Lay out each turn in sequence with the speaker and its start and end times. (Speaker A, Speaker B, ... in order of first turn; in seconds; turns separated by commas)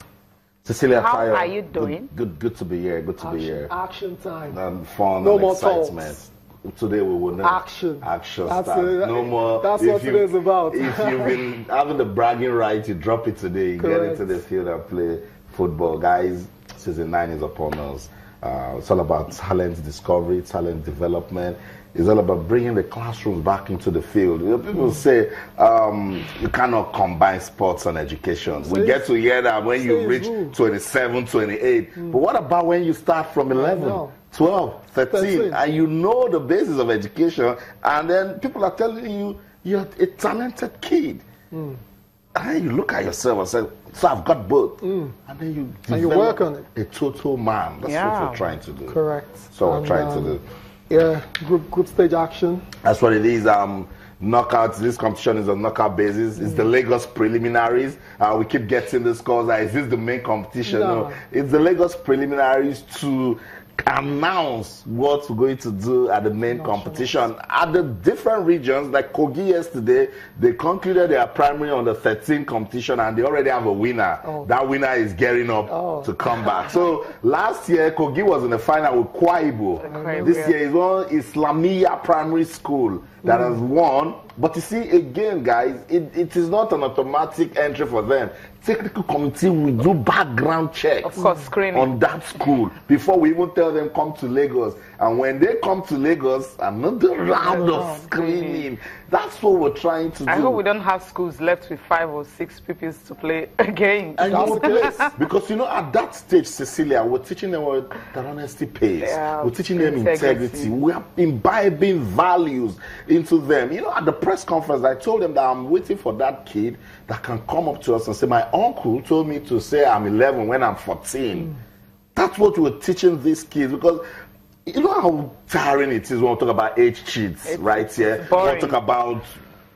Speaker A: 0.6-3.7, Speaker B: 0.9-2.1, Speaker C: 3.2-4.6, Speaker A: 4.5-41.2, Speaker C: 5.2-6.2, Speaker C: 7.4-11.4, Speaker C: 13.8-14.4, Speaker C: 28.6-29.1, Speaker C: 29.7-30.6, Speaker C: 33.5-34.1, Speaker C: 35.1-35.6, Speaker C: 41.5-41.8, Speaker A: 42.4-49.0, Speaker C: 44.8-45.1, Speaker C: 45.9-46.7, Speaker B: 47.8-48.5, Speaker C: 48.9-52.6, Speaker A: 49.5-50.4, Speaker A: 52.8-100.6, Speaker C: 56.4-56.7, Speaker C: 60.6-61.2, Speaker C: 66.5-67.2, Speaker C: 75.7-76.1, Speaker B: 79.8-80.5, Speaker C: 79.9-80.5, Speaker C: 83.2-83.6, Speaker B: 91.0-91.9, Speaker C: 91.2-91.4, Speaker C: 97.4-98.1, Speaker B: 97.4-98.7, Speaker B: 100.2-105.1, Speaker A: 104.2-121.5, Speaker C: 104.2-105.1, Speaker B: 109.0-110.7, Speaker A: 122.1-124.0, Speaker A: 124.7-129.3, Speaker B: 127.4-128.8